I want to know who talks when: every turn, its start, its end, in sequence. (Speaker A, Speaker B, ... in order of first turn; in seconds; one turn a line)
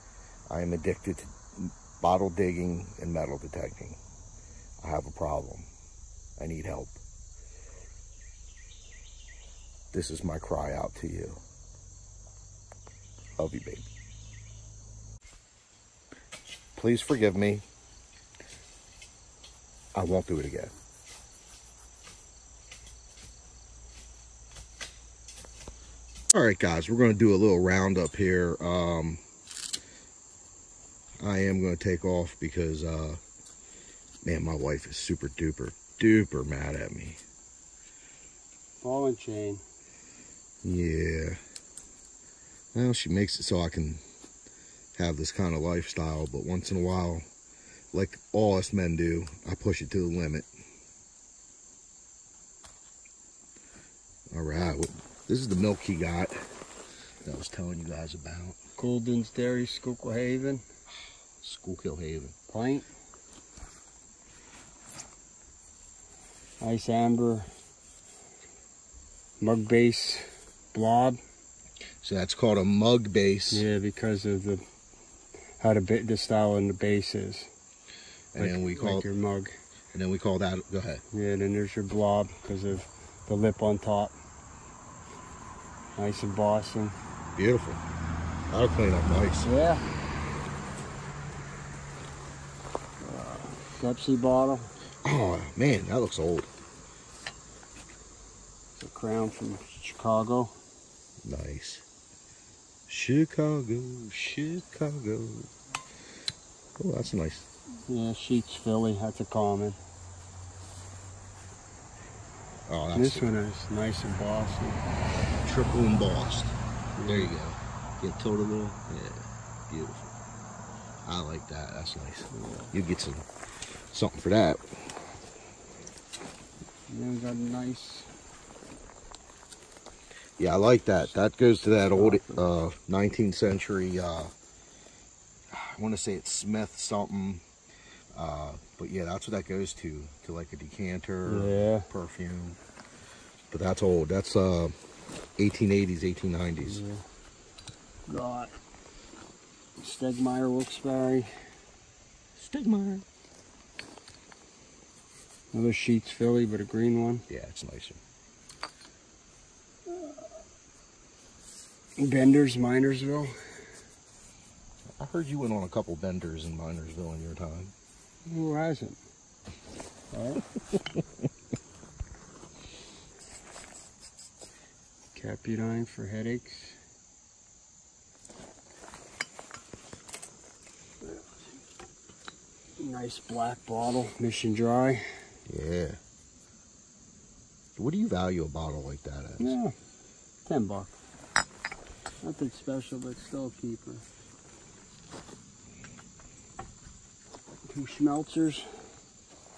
Speaker A: 0.5-4.0
Speaker A: 4.8-5.7
Speaker A: 6.4-7.0
Speaker A: 9.9-11.4
Speaker A: 13.4-13.9
Speaker A: 16.8-17.6
Speaker A: 19.9-20.7
Speaker A: 26.3-29.2
Speaker A: 31.2-33.2
Speaker A: 34.2-37.2
Speaker B: 38.8-39.6
Speaker A: 40.6-41.4
Speaker A: 42.7-44.0
Speaker A: 45.0-47.3
Speaker A: 47.9-50.5
Speaker A: 54.3-56.4
Speaker A: 57.2-58.6
Speaker B: 58.8-60.6
Speaker A: 61.4-62.4
Speaker B: 62.5-62.9
Speaker B: 66.6-67.5
Speaker B: 69.4-71.2
Speaker A: 72.0-73.7
Speaker B: 73.5-74.6
Speaker B: 75.6-77.5
Speaker A: 78.3-79.1
Speaker B: 78.4-79.6
Speaker A: 79.9-81.0
Speaker B: 81.1-84.2
Speaker B: 86.0-87.0
Speaker A: 87.4-87.8
Speaker A: 88.5-89.5
Speaker B: 89.4-89.8
Speaker B: 93.0-94.7
Speaker A: 95.0-96.5
Speaker B: 98.8-100.6
Speaker A: 101.2-101.8
Speaker A: 102.9-105.5
Speaker A: 106.8-107.5
Speaker B: 107.9-109.8
Speaker A: 112.7-113.3
Speaker B: 112.9-114.9
Speaker A: 115.4-120.1
Speaker B: 117.0-117.3
Speaker A: 121.0-123.3
Speaker B: 122.3-122.7
Speaker A: 123.9-124.6
Speaker B: 126.9-128.1
Speaker A: 130.4-134.3
Speaker B: 131.9-132.4
Speaker A: 135.5-137.4
Speaker A: 138.1-142.6
Speaker B: 141.2-141.9
Speaker A: 143.5-144.7
Speaker A: 145.4-146.8
Speaker B: 146.6-147.0
Speaker B: 148.1-148.6
Speaker B: 149.8-151.3
Speaker A: 152.4-153.1
Speaker B: 155.5-157.3
Speaker A: 157.3-158.0
Speaker B: 159.9-160.4
Speaker B: 162.0-163.3
Speaker A: 165.0-167.7
Speaker B: 168.2-169.0
Speaker B: 170.1-170.4
Speaker B: 175.1-176.8
Speaker B: 181.0-181.5
Speaker B: 182.8-185.0
Speaker A: 185.5-186.0
Speaker A: 187.8-189.6
Speaker B: 189.4-189.8
Speaker B: 190.4-191.0
Speaker B: 192.2-194.1
Speaker B: 197.7-198.7